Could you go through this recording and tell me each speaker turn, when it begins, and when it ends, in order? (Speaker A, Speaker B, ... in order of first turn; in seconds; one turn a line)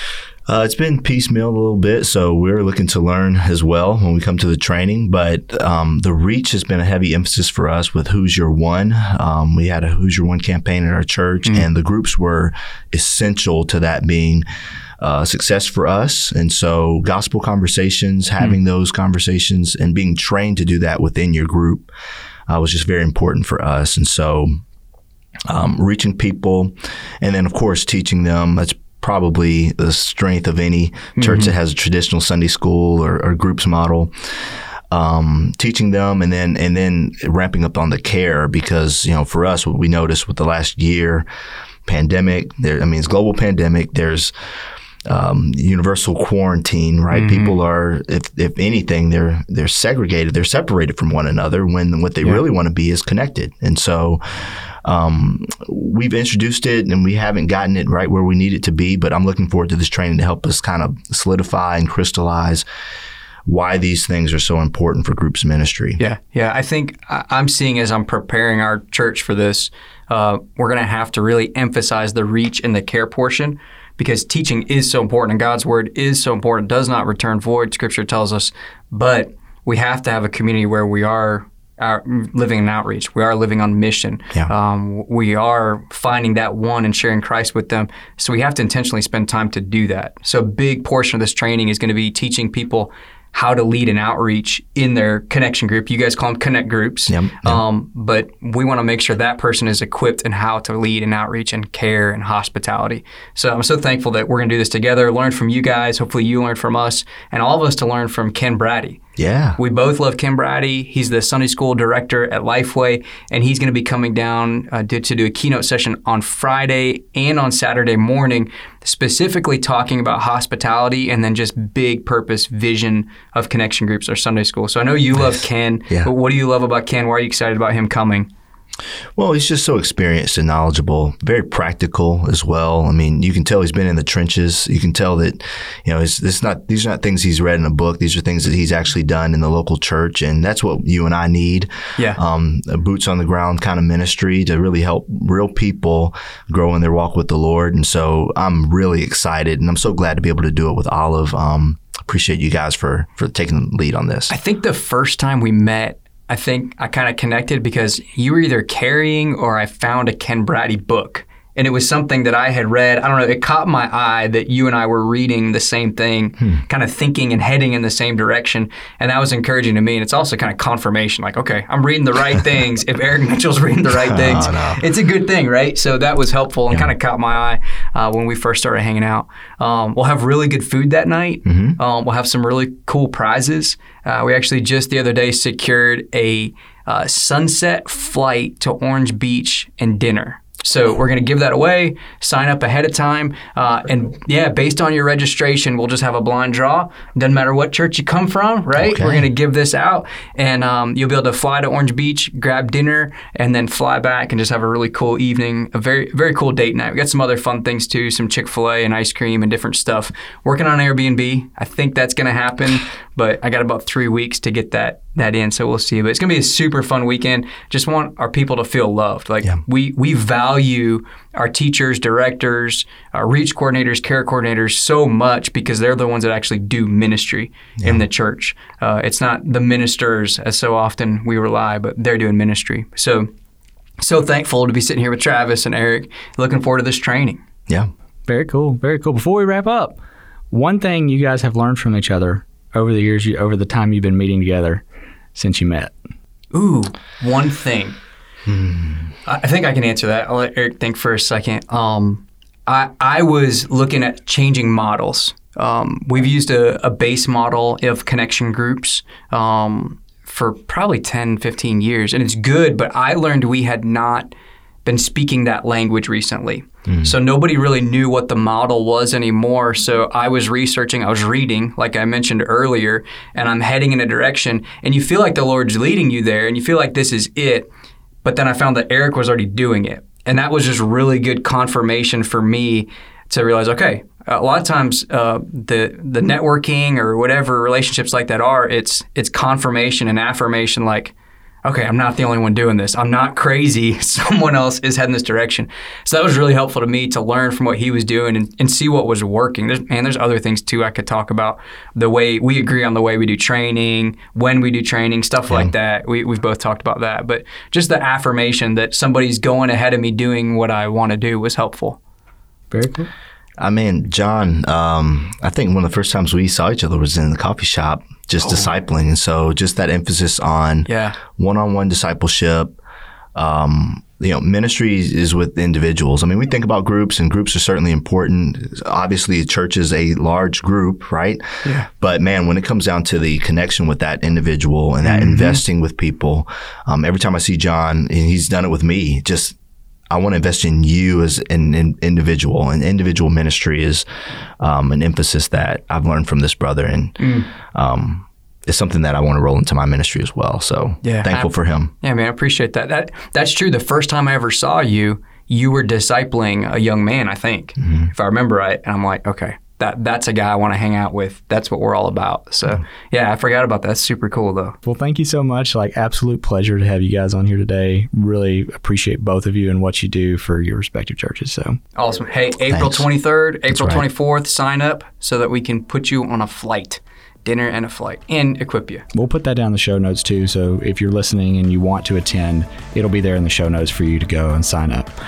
Speaker A: 0.5-14.4
Speaker A: 15.0-21.9
Speaker A: 22.5-24.6
Speaker A: 25.5-41.2
Speaker B: 31.2-31.5
Speaker A: 41.9-44.3
Speaker A: 45.1-62.6
Speaker B: 47.1-47.5
Speaker A: 63.5-66.0
Speaker B: 66.0-109.0
Speaker A: 97.1-97.6
Speaker A: 109.2-109.6
Speaker B: 109.6-128.3
Speaker A: 129.2-154.3
Speaker B: 154.3-233.3
Speaker A: 174.1-174.8
Speaker A: 181.4-181.8
Speaker A: 198.8-199.3
Speaker A: 227.8-228.0
Speaker B: 234.0-237.4
Speaker C: 238.3-240.0
Speaker C: 240.5-244.8
Speaker C: 245.3-245.9
Speaker B: 246.5-248.0
Speaker A: 248.4-249.1
Speaker B: 249.2-264.3
Speaker B: 264.8-277.7
Speaker A: 266.9-267.1
Speaker B: 278.2-291.1
Speaker B: 291.6-312.0
Speaker C: 312.7-313.1
Speaker A: 313.6-322.8
Speaker B: 318.4-318.7
Speaker B: 320.9-321.2
Speaker A: 323.3-339.6
Speaker B: 335.0-335.6
Speaker A: 340.1-344.1
Speaker A: 344.6-351.9
Speaker B: 347.2-347.5
Speaker B: 351.0-364.8
Speaker A: 357.8-358.1
Speaker C: 364.8-371.8
Speaker B: 371.9-379.0
Speaker A: 372.7-373.1
Speaker A: 373.7-374.0
Speaker C: 379.1-385.1